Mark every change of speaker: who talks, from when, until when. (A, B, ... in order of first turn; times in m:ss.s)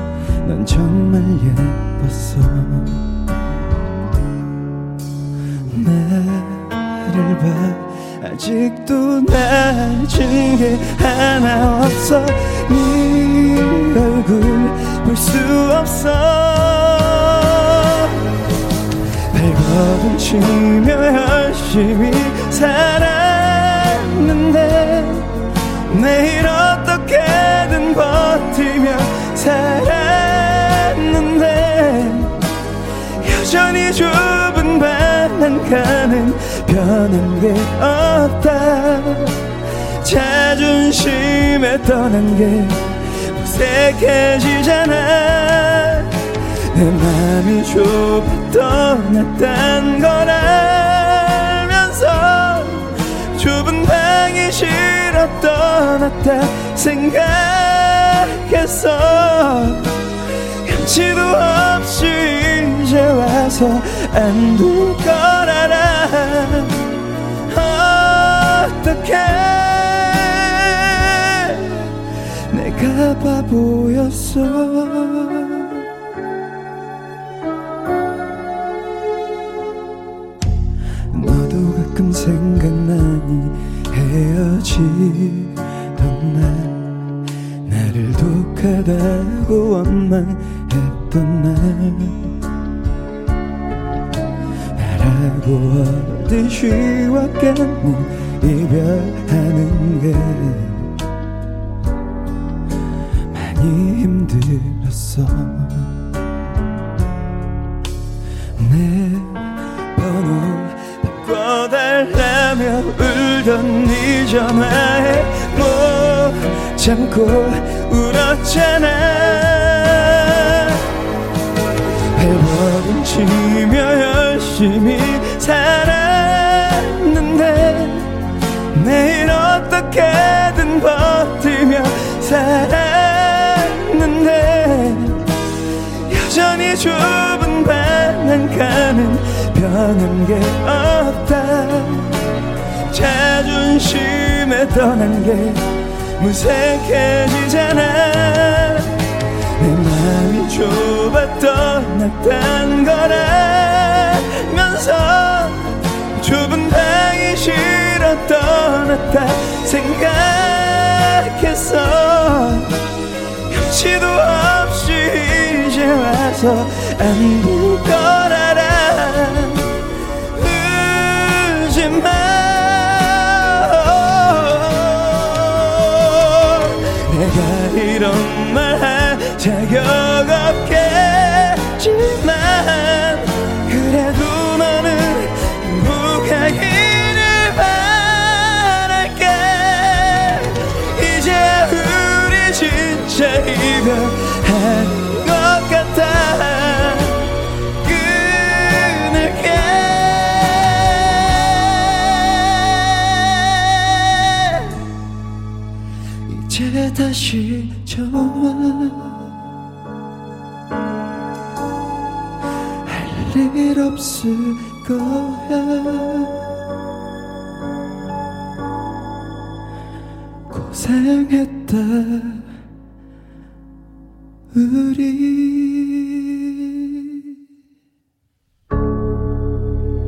0:00.4-0:03.0 A
0:05.7-0:17.9 A
0:19.3-0:25.3 A
0:25.9-0:32.4 A
0:33.2-0:39.4 A
0:40.0-0:46.2 A
0:46.7-0:59.9 A
1:00.6-1:06.7 A
1:07.5-1:11.8 A
1:12.5-1:15.7 A
1:21.1-1:26.8 A
1:27.7-1:32.3 A
1:34.8-1:40.9 A
1:43.3-1:46.0 A
1:48.6-2:00.7 A
2:02.1-2:08.1 A
2:08.7-2:15.2 A
2:16.0-2:22.2 A
2:22.9-2:28.9 A
2:29.6-2:42.8 A
2:43.5-2:49.7 A
2:50.3-3:17.3 A
3:17.8-3:22.2 A
3:24.3-3:24.7 A
3:26.3-3:29.2 A
3:32.8-3:36.4 A
3:40.5-3:42.4 A
3:44.5-3:46.5 A